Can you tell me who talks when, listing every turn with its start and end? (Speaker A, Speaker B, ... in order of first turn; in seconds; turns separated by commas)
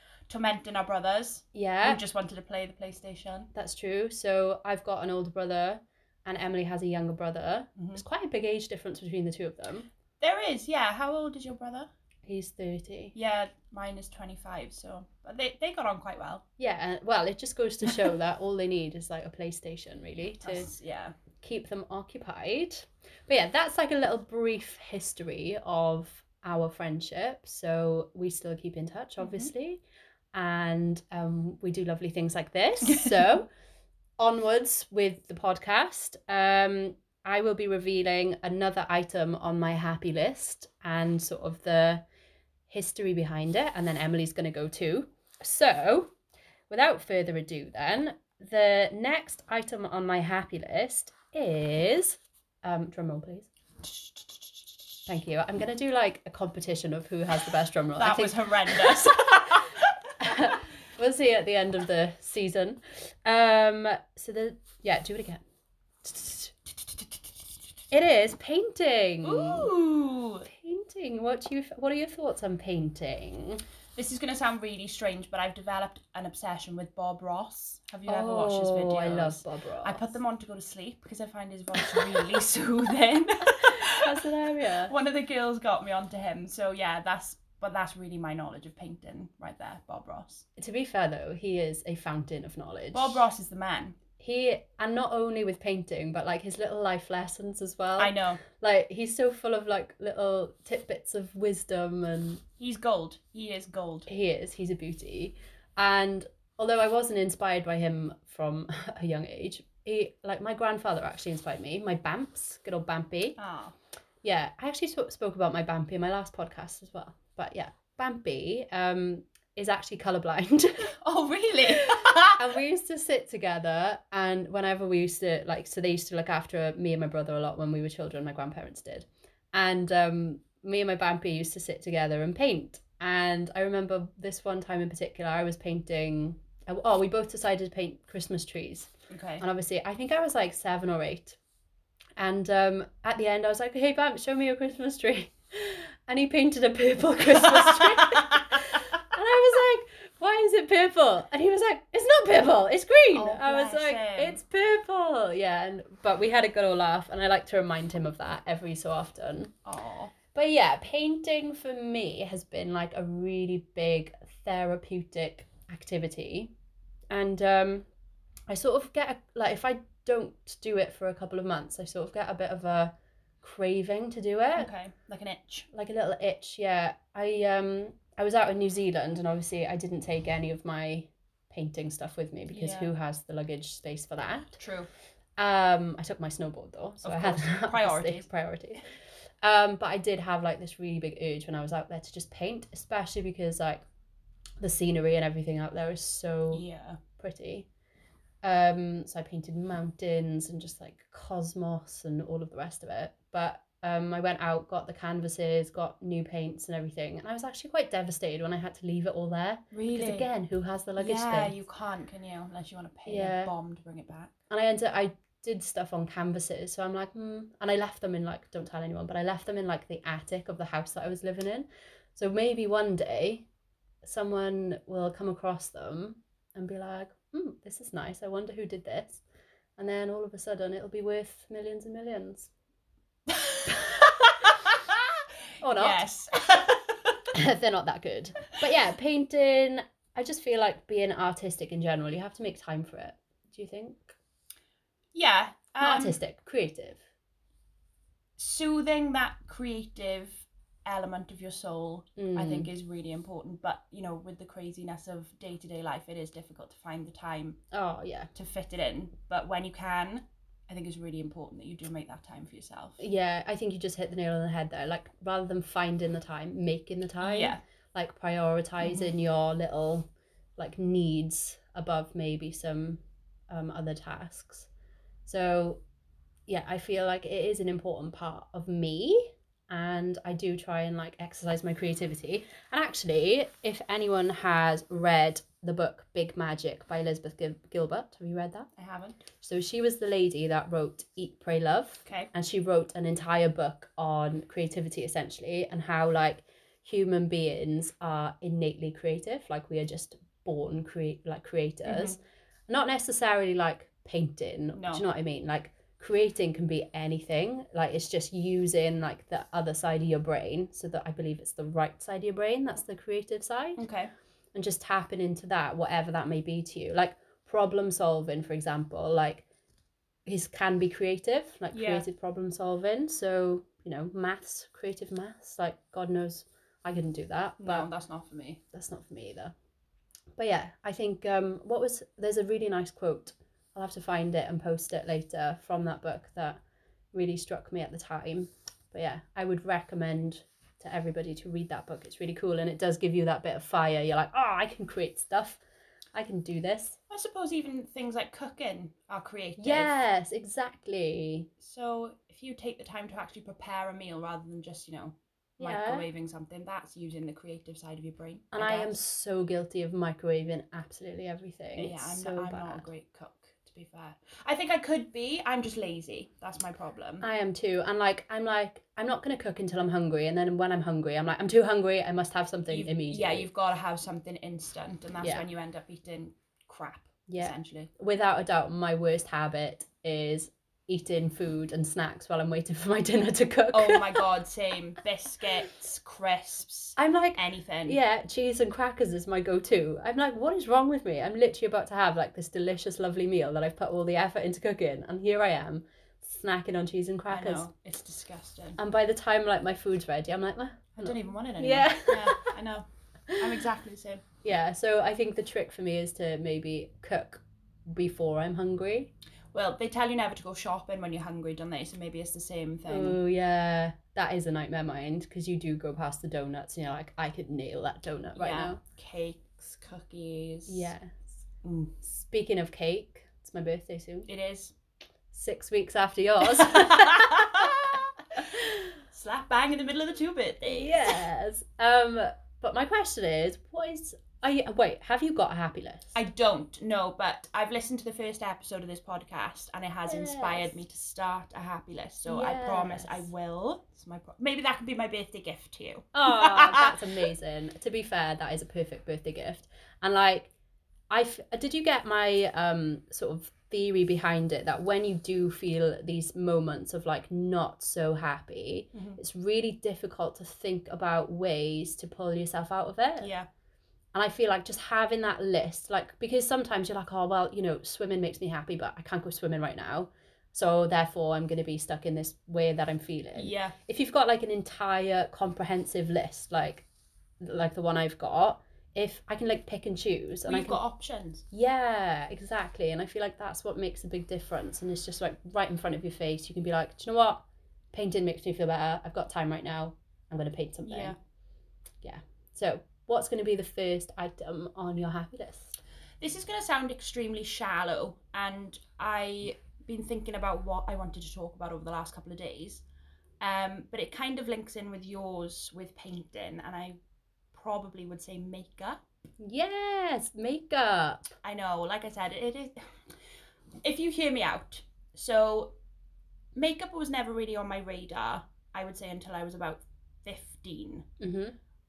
Speaker A: 0.3-3.5, Speaker B: 1.5-2.0, Speaker B: 3.5-9.9, Speaker A: 7.8-8.0, Speaker A: 10.2-11.9, Speaker B: 12.3-13.1, Speaker A: 13.1-16.4, Speaker B: 16.6-20.7, Speaker A: 20.4-21.1, Speaker B: 21.4-29.8, Speaker A: 29.2-29.5, Speaker B: 30.3-33.5, Speaker B: 34.2-42.0, Speaker B: 42.7-46.1, Speaker B: 46.7-53.5, Speaker A: 53.8-54.5, Speaker B: 55.1-59.6, Speaker A: 58.0-59.8, Speaker B: 60.2-65.4, Speaker B: 66.0-66.5, Speaker B: 67.9-69.7, Speaker A: 69.2-70.5, Speaker B: 70.5-73.6, Speaker A: 74.0-84.2, Speaker B: 78.1-80.0, Speaker B: 83.7-84.9, Speaker A: 84.8-90.4, Speaker B: 90.6-93.2, Speaker A: 92.9-94.0, Speaker B: 94.2-102.4, Speaker A: 98.0-98.4, Speaker A: 102.6-104.1, Speaker B: 104.1-113.4, Speaker A: 113.4-113.8, Speaker B: 114.2-120.9, Speaker A: 121.0-122.4, Speaker B: 121.9-141.4, Speaker A: 139.1-139.4, Speaker B: 142.2-159.5, Speaker A: 153.1-154.4, Speaker A: 159.6-160.1, Speaker B: 160.3-166.5, Speaker B: 167.1-167.9, Speaker B: 168.5-174.7, Speaker A: 174.5-175.7, Speaker B: 175.7-184.6, Speaker A: 182.5-182.9, Speaker A: 184.6-184.9, Speaker B: 185.4-188.8, Speaker A: 187.0-188.3, Speaker B: 189.4-193.8, Speaker B: 194.6-196.6, Speaker A: 196.5-197.0, Speaker B: 197.2-197.7, Speaker B: 198.4-211.5, Speaker A: 209.7-210.3, Speaker A: 211.0-214.3, Speaker B: 213.1-213.5, Speaker B: 214.5-223.5, Speaker B: 224.0-229.2, Speaker B: 229.8-232.5, Speaker A: 233.3-235.0, Speaker B: 235.6-236.0, Speaker A: 235.7-237.2, Speaker B: 237.3-244.1, Speaker A: 245.1-246.2, Speaker B: 245.8-247.0, Speaker A: 248.4-257.6, Speaker B: 252.2-252.7, Speaker B: 257.7-258.3, Speaker A: 258.3-263.0, Speaker B: 263.0-274.7, Speaker A: 267.2-267.6, Speaker A: 268.8-269.1, Speaker B: 275.2-275.8, Speaker B: 276.5-288.7, Speaker A: 288.8-289.2, Speaker B: 289.4-313.8, Speaker A: 301.8-302.2, Speaker A: 304.7-305.0, Speaker A: 313.8-314.1, Speaker B: 314.5-319.4, Speaker B: 320.2-327.9, Speaker A: 321.7-322.1, Speaker A: 327.6-328.6, Speaker B: 328.7-329.5, Speaker B: 330.4-336.6, Speaker B: 337.1-345.6, Speaker B: 346.1-347.0, Speaker A: 347.1-349.9, Speaker B: 349.6-351.5, Speaker A: 351.6-359.0, Speaker B: 355.6-356.0, Speaker B: 358.5-362.9, Speaker A: 361.8-367.2, Speaker B: 367.2-373.5, Speaker A: 372.7-377.9, Speaker B: 377.3-384.2, Speaker A: 383.7-388.0, Speaker B: 386.9-397.7, Speaker A: 397.3-398.8, Speaker B: 398.8-402.5, Speaker A: 400.9-402.8, Speaker A: 403.4-404.2, Speaker B: 404.4-409.1, Speaker A: 409.5-413.2, Speaker B: 412.9-418.8, Speaker A: 418.4-420.9, Speaker B: 420.7-421.4, Speaker A: 421.6-421.9, Speaker B: 422.0-424.3, Speaker A: 424.3-424.7, Speaker B: 425.3-427.7, Speaker A: 426.6-428.0, Speaker A: 429.1-431.2, Speaker B: 430.6-436.1, Speaker A: 436.1-447.1, Speaker B: 440.0-440.7, Speaker B: 442.2-443.3, Speaker B: 446.1-450.5, Speaker B: 451.1-463.3, Speaker A: 458.9-459.2, Speaker A: 463.2-463.5, Speaker B: 464.1-476.9, Speaker A: 473.3-473.7, Speaker B: 477.4-480.8, Speaker A: 480.4-481.4, Speaker B: 481.5-491.1, Speaker A: 490.8-491.1, Speaker B: 492.0-495.8, Speaker A: 496.2-502.8, Speaker A: 503.4-507.0, Speaker A: 507.5-509.0, Speaker B: 509.4-511.3, Speaker A: 511.4-512.8, Speaker A: 513.8-515.7, Speaker A: 516.5-521.0, Speaker B: 521.2-521.5